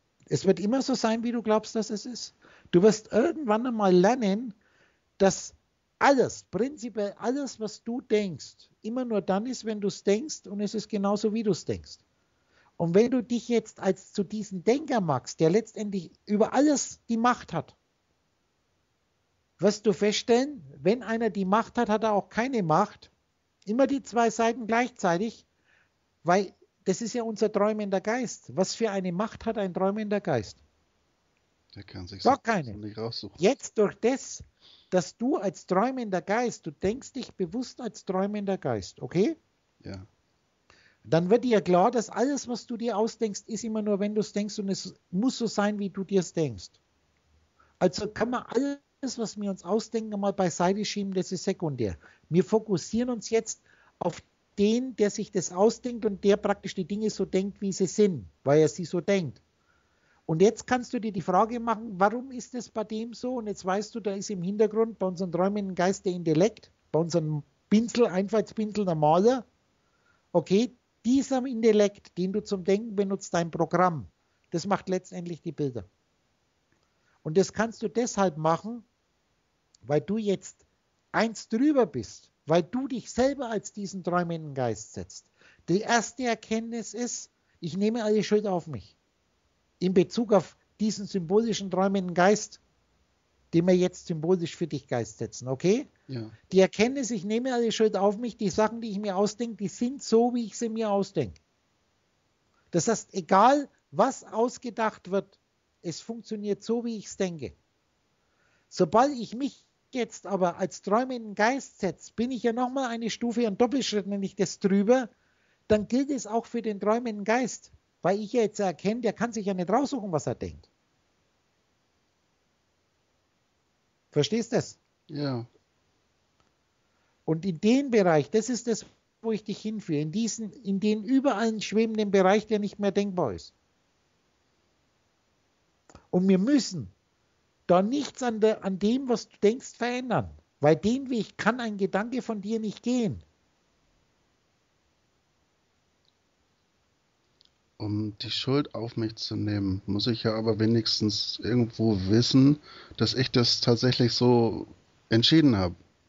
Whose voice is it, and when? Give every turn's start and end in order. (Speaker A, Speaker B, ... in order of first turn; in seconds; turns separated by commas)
Speaker A: 0.3-4.5, Speaker A: 5.2-12.0, Speaker A: 12.8-17.8, Speaker A: 19.6-23.1, Speaker A: 23.6-25.4, Speaker A: 26.2-30.6, Speaker B: 31.7-33.4, Speaker A: 32.2-32.8, Speaker A: 33.4-39.4, Speaker B: 39.8-40.1, Speaker A: 41.1-46.8, Speaker A: 47.8-59.4, Speaker A: 60.3-69.5, Speaker A: 70.3-75.9, Speaker A: 77.2-78.8, Speaker A: 79.8-88.9, Speaker A: 89.8-92.6, Speaker A: 93.5-95.9, Speaker B: 96.1-96.3, Speaker A: 96.5-101.4, Speaker A: 102.7-107.5, Speaker A: 108.7-115.1, Speaker A: 115.7-120.7, Speaker A: 124.1-124.8, Speaker B: 125.1-125.5, Speaker A: 127.2-133.5, Speaker A: 136.1-136.9, Speaker A: 137.7-143.2, Speaker B: 147.8-155.8